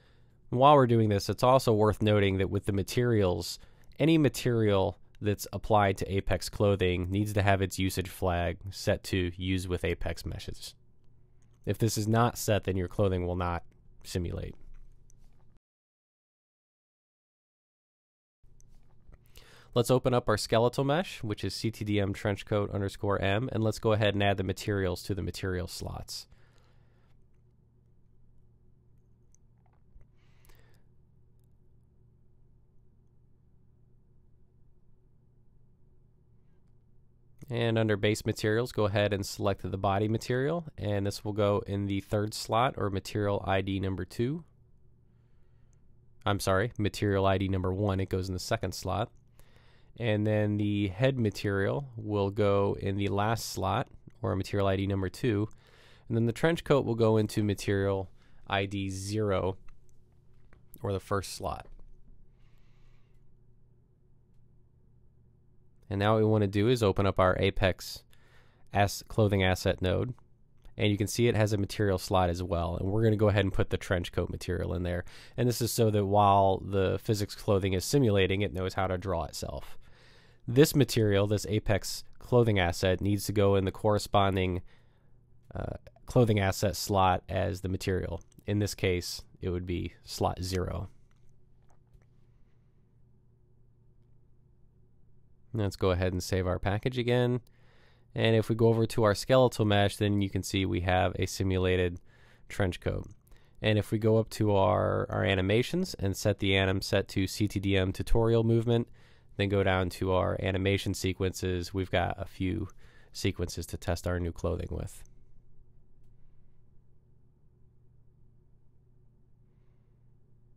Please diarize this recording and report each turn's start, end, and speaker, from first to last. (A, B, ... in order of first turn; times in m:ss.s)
0:00.5-0:10.8 A
0:11.7-0:14.6 A
0:19.8-0:26.3 A
0:37.5-0:44.5 A
0:46.2-0:49.1 A
0:50.0-0:55.5 A
0:56.1-0:59.6 A
1:00.8-1:01.7 A
1:05.9-1:08.0 A
1:08.7-1:10.1 A
1:10.8-1:19.8 A
1:20.5-1:24.6 A
1:25.5-1:30.9 A
1:35.5-1:37.4 A
1:38.2-1:43.1 A
1:43.6-1:55.0 A